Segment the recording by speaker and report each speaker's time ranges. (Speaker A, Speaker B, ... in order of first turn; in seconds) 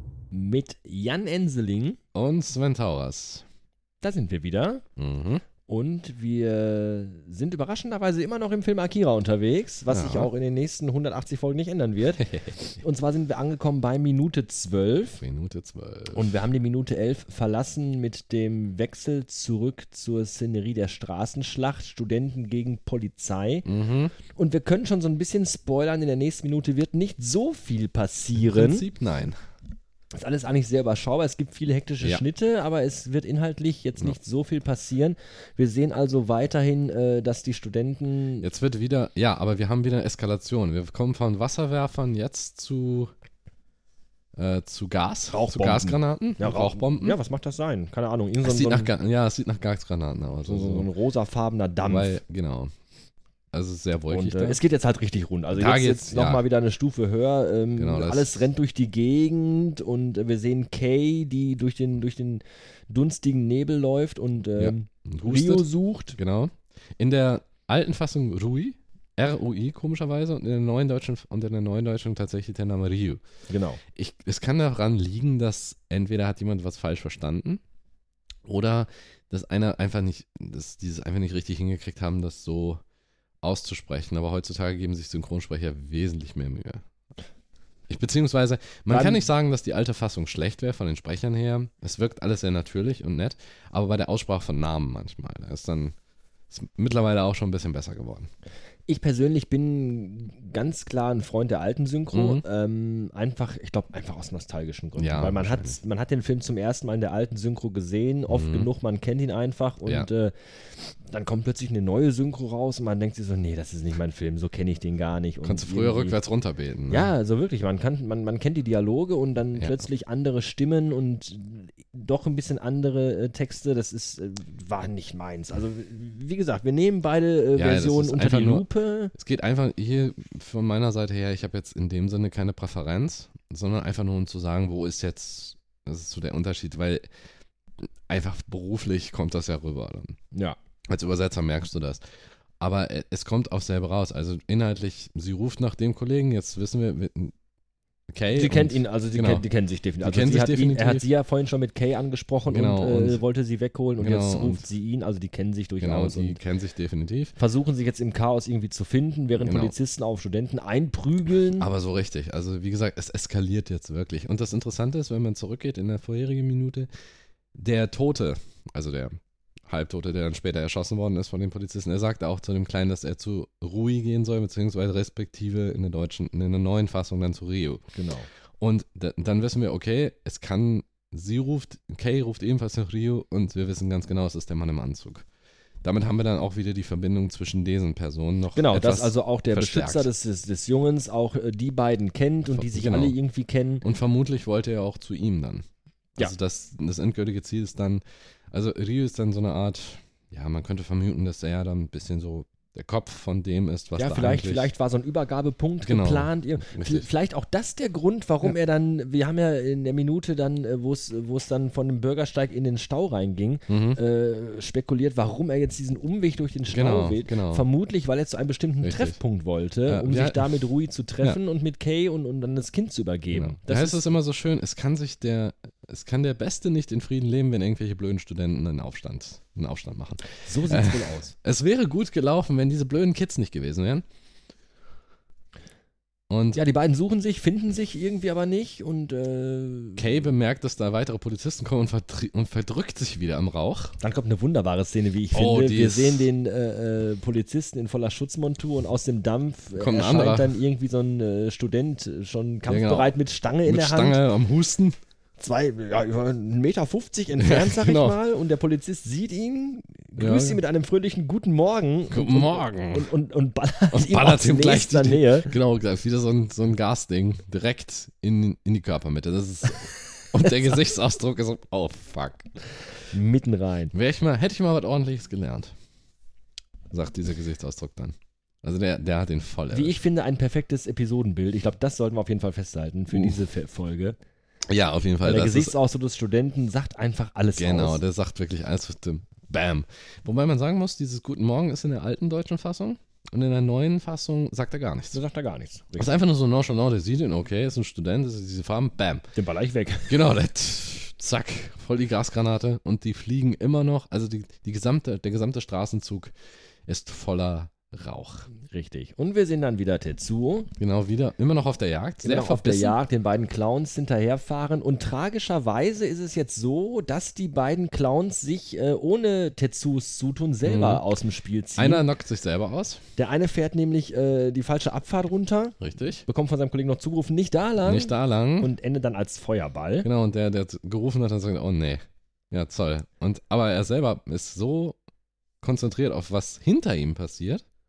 Speaker A: 0.3-2.0, 4.0-4.8, 5.7-12.3, 12.8-15.2, 16.1-23.7, 24.2-28.8, 30.1-38.5, 45.3-48.9, 50.4-52.2, 54.1-66.2, 73.5-73.8, 88.9-89.3, 98.9-116.2, 116.9-129.1, 148.3-156.4, 157.4-161.7, 177.9-178.3, 188.5-193.8, 203.9-224.0, 230.4-231.3, 236.5-240.2, 244.0-254.2, 255.4-265.5, 273.1-273.9, 279.7-284.2, 285.2-288.0, 295.1-296.1, 299.3-300.2, 308.6-310.7, 312.2-322.1, 323.2-330.1
Speaker B: 2.1-3.4, 5.0-5.4, 9.9-10.3, 12.2-12.6, 15.2-16.4, 23.6-24.1, 28.4-29.4, 38.4-43.1, 44.3-47.2, 48.4-50.9, 51.8-52.7, 53.5-54.6, 55.5-56.4, 57.8-58.4, 64.6-73.2, 73.9-77.6, 78.5-82.8, 83.4-86.8, 87.9-95.9, 96.5-98.3, 102.1-102.4, 105.0-105.8, 108.3-108.7, 115.4-117.1, 127.5-137.0, 138.1-140.2, 140.9-142.0, 142.6-147.3, 148.1-149.4, 150.0-151.1, 152.5-153.2, 154.0-154.6, 155.8-157.3, 159.4-159.7, 161.6-166.9, 167.5-169.2, 169.7-177.8, 178.6-185.2, 185.8-190.1, 192.5-193.2, 193.8-195.6, 196.2-204.7, 205.8-207.1, 213.7-214.0, 216.7-217.6, 218.8-219.2, 219.9-220.4, 223.3-234.0, 236.3-236.6, 240.0-243.9, 245.3-246.3, 249.8-250.6, 252.7-254.9, 257.4-258.2, 260.2-260.6, 262.1-263.1, 263.9-272.5, 273.9-275.7, 276.9-280.0, 283.1-283.4, 284.7-285.7, 287.6-295.2, 296.0-299.2, 300.1-306.3, 306.9-308.5, 310.8-313.0, 320.6-321.0, 321.8-323.0, 325.8-326.2, 327.8-328.7, 330.0-335.0, 335.6-337.6